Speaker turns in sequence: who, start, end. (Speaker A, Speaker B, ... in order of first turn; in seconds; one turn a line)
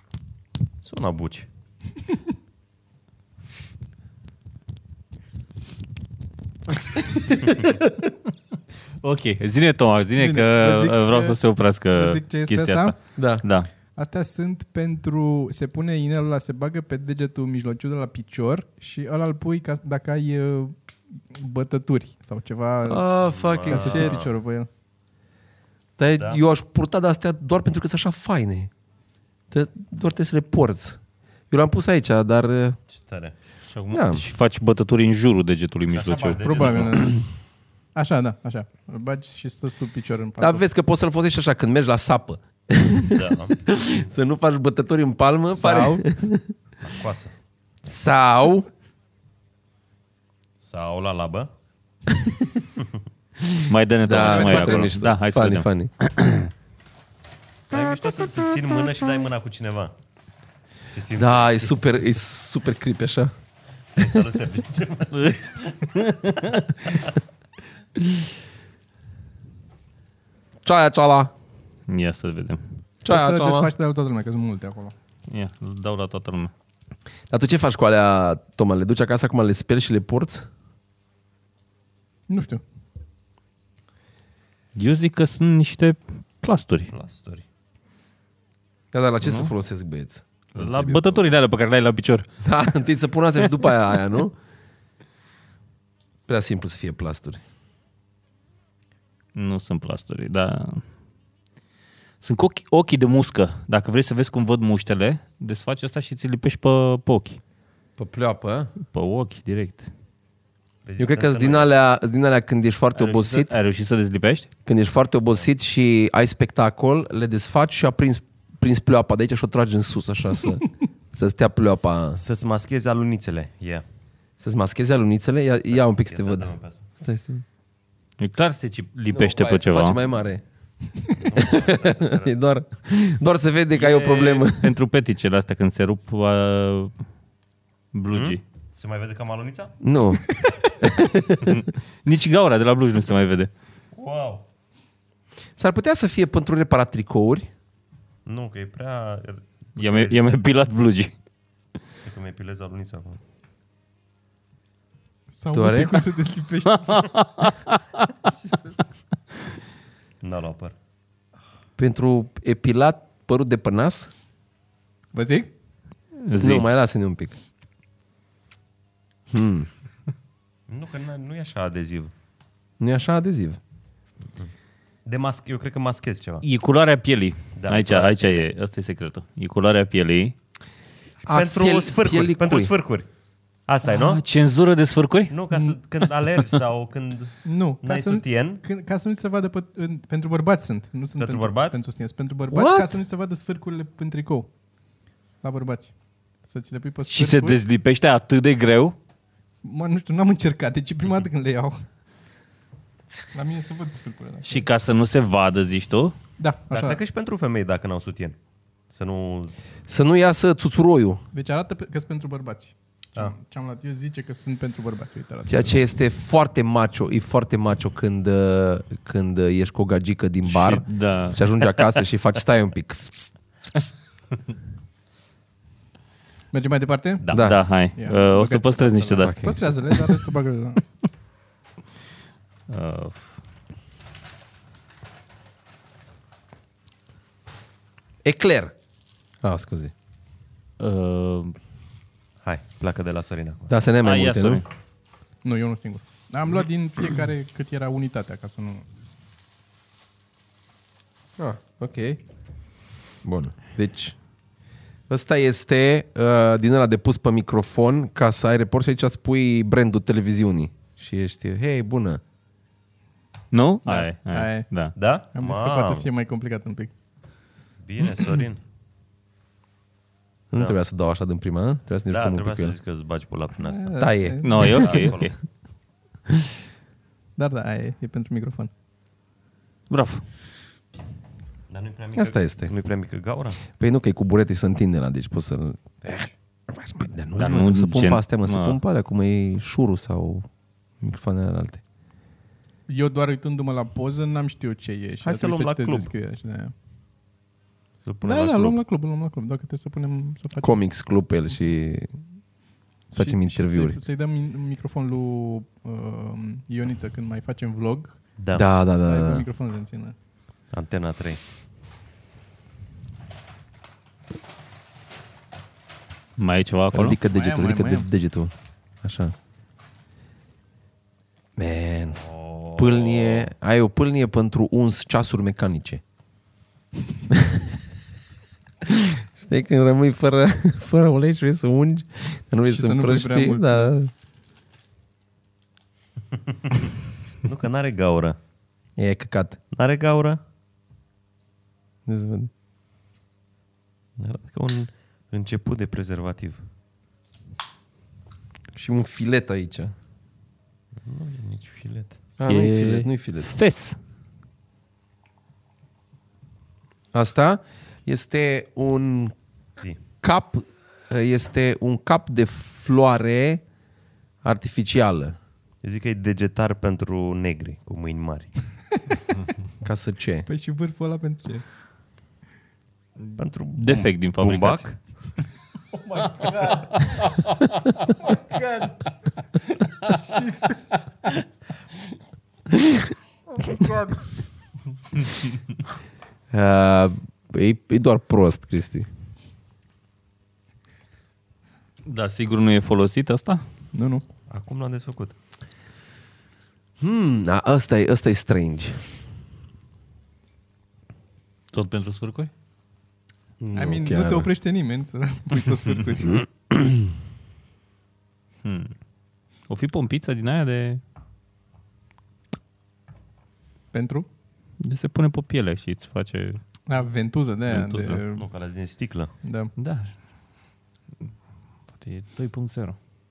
Speaker A: 0.8-1.5
Speaker B: 7.3-7.7
Speaker B: 9.0-13.7
Speaker C: 10.2-11.4
Speaker C: 11.9-12.9
Speaker D: 13.2-13.4
Speaker C: 13.9-23.1
Speaker D: 22.8-24.2
Speaker A: 23.3-24.3
Speaker C: 23.7-24.7
Speaker D: 26.0-28.7
Speaker D: 29.5-31.0
Speaker D: 31.5-32.8
Speaker A: 32.9-33.3
Speaker B: 33.7-36.9
Speaker D: 33.9-34.2
Speaker A: 35.9-37.1
Speaker C: 36.4-37.2
Speaker C: 37.9-40.6
Speaker D: 40.4-46.5
Speaker A: 43.1-43.6
Speaker C: 45.5-46.0
Speaker A: 46.8-47.3
Speaker D: 47.8-48.7
Speaker A: 50.6-51.5
Speaker D: 53.4-55.9
Speaker B: 53.7-56.5
Speaker C: 54.3-54.9
Speaker A: 57.6-59.9
Speaker A: 60.9-61.8
Speaker D: 61.2-63.3
Speaker A: 64.0-65.8
Speaker B: 65.9-66.6
Speaker D: 70.6-71.3
Speaker B: 71.9-72.6
Speaker D: 73.0-73.7
Speaker C: 73.1-74.9
Speaker B: 75.3-76.5
Speaker D: 77.3-80.5
Speaker C: 82.3-82.6
Speaker B: 84.7-86.9
Speaker A: 86.9-87.4
Speaker D: 88.9-91.2
Speaker B: 89.2-89.5
Speaker B: 90.5-92.2
Speaker D: 92.4-94.3
Speaker D: 96.3-97.4
Speaker B: 99.3-100.8
Speaker B: 102.2-107.4
Speaker D: 108.0-108.7
Speaker B: 108.9-109.8
Speaker A: 110.8-111.7
Speaker D: 111.0-113.5
Speaker B: 113.0-114.5
Speaker D: 114.7-122.2
Speaker A: 122.2-123.8
Speaker D: 124.4-127.4
Speaker A: 125.7-126.8
Speaker B: 128.2-130.0
Speaker D: 129.1-130.4
Speaker A: 131.2-132.3
Speaker D: 131.4-134.8
Speaker B: 133.7-136.9
Speaker B: 137.9-138.4
Speaker A: 138.1-139.7
Speaker D: 139.8-141.6
Speaker B: 141.4-143.5
Speaker A: 143.9-144.4
Speaker D: 145.6-147.5
Speaker A: 148.2-150.4
Speaker B: 149.8-151.1
Speaker A: 152.0-153.2
Speaker C: 155.3-157.5
Speaker D: 155.5-156.0
Speaker B: 156.9-157.8
Speaker C: 158.5-158.7
Speaker A: 160.2-160.7
Speaker D: 161.8-164.1
Speaker C: 165.1-165.5
Speaker B: 166.2-166.6
Speaker D: 166.4-167.3
Speaker D: 169.3-169.7
Speaker A: 170.7-172.1
Speaker D: 172.8-173.6
Speaker A: 175.1-176.4
Speaker B: 176.4-180.3
Speaker A: 177.6-178.4
Speaker A: 181.2-183.1
Speaker D: 181.2-182.7
Speaker A: 183.7-184.2
Speaker B: 183.8-185.3
Speaker A: 185.3-188.6
Speaker C: 187.4-194.5
Speaker A: 191.2-191.8
Speaker D: 192.5-193.0
Speaker C: 195.4-195.9
Speaker C: 196.4-197.6
Speaker B: 197.1-198.9
Speaker C: 199.6-201.8
Speaker C: 203.3-204.7
Speaker B: 204.4-206.1
Speaker C: 206.4-207.0
Speaker A: 206.7-208.3
Speaker A: 208.9-209.5
Speaker D: 209.9-211.2
Speaker C: 211.3-215.8
Speaker D: 215.5-223.3
Speaker B: 220.4-221.4
Speaker C: 226.5-227.3
Speaker D: 227.3-227.6
Speaker B: 227.3-230.1
Speaker C: 227.9-230.8
Speaker D: 229.2-229.7
Speaker B: 232.7-233.4
Speaker D: 238.2-238.7
Speaker D: 239.4-239.9
Speaker B: 240.8-241.5
Speaker A: 242.4-243.7
Speaker D: 243.7-244.6
Speaker B: 244.0-244.6
Speaker C: 245.4-248.8
Speaker D: 251.4-252.2
Speaker D: 253.2-254.2
Speaker D: 255.1-262.2
Speaker B: 263.5-264.9
Speaker C: 263.9-264.7
Speaker A: 264.9-266.1
Speaker C: 265.3-266.9
Speaker A: 267.8-268.6
Speaker D: 270.5-272.8
Speaker A: 272.1-274.1
Speaker C: 273.7-274.8
Speaker D: 274.0-274.4
Speaker B: 274.4-275.3
Speaker A: 274.6-275.3
Speaker C: 277.4-278.7
Speaker B: 279.9-280.2
Speaker A: 281.7-283.6
Speaker D: 282.2-282.7
Speaker D: 283.7-290.5
Speaker B: 287.4-288.8
Speaker D: 291.0-291.8
Speaker C: 292.9-296.7
Speaker A: 295.2-296.1
Speaker A: 298.0-298.8
Speaker C: 298.2-300.8
Speaker D: 300.6-302.1
Speaker D: 303.1-304.0
Speaker C: 303.1-308.2
Speaker A: 308.4-308.6
Speaker D: 308.5-309.4
Speaker C: 308.9-310.1
Speaker A: 310.7-311.4
Speaker B: 316.4-317.2
Speaker D: 316.9-319.3
Speaker C: 317.3-318.1
Speaker D: 321.6-322.2
Speaker A: 322.1-323.5
Speaker D: 322.8-326.0
Speaker D: 327.3-327.6
Speaker D: 328.8-334.1
Speaker C: 332.7-333.9
Speaker A: 337.4-338.4
Speaker D: 339.0-339.6
Speaker A: 339.7-340.4
Speaker D: 342.1-342.5
Speaker A: 344.2-346.6
Speaker D: 348.7-349.9
Speaker A: 351.0-352.2
Speaker D: 352.4-353.5
Speaker B: 352.5-354.0
Speaker D: 357.1-359.3
Speaker D: 360.2-363.6
Speaker D: 364.4-365.4
Speaker A: 365.8-368.5
Speaker D: 369.8-370.5
Speaker C: 370.5-371.6
Speaker B: 373.3-374.9
Speaker A: 373.4-374.9
Speaker C: 376.0-377.0
Speaker C: 378.3-378.9
Speaker C: 380.1-381.0
Speaker D: 382.7-383.1
Speaker D: 386.5-389.1
Speaker B: 392.1-393.6
Speaker C: 393.9-394.2
Speaker A: 394.5-395.4
Speaker D: 397.0-399.0
Speaker B: 401.7-402.5
Speaker D: 403.6-404.5
Speaker C: 403.7-406.4
Speaker D: 406.2-407.1
Speaker B: 408.6-408.9
Speaker B: 409.7-411.0
Speaker C: 413.9-414.3
Speaker B: 414.8-416.6
Speaker C: 416.9-418.5
Speaker B: 417.7-418.2
Speaker A: 418.3-419.3
Speaker C: 419.4-419.7
Speaker B: 419.8-420.1
Speaker B: 421.9-422.9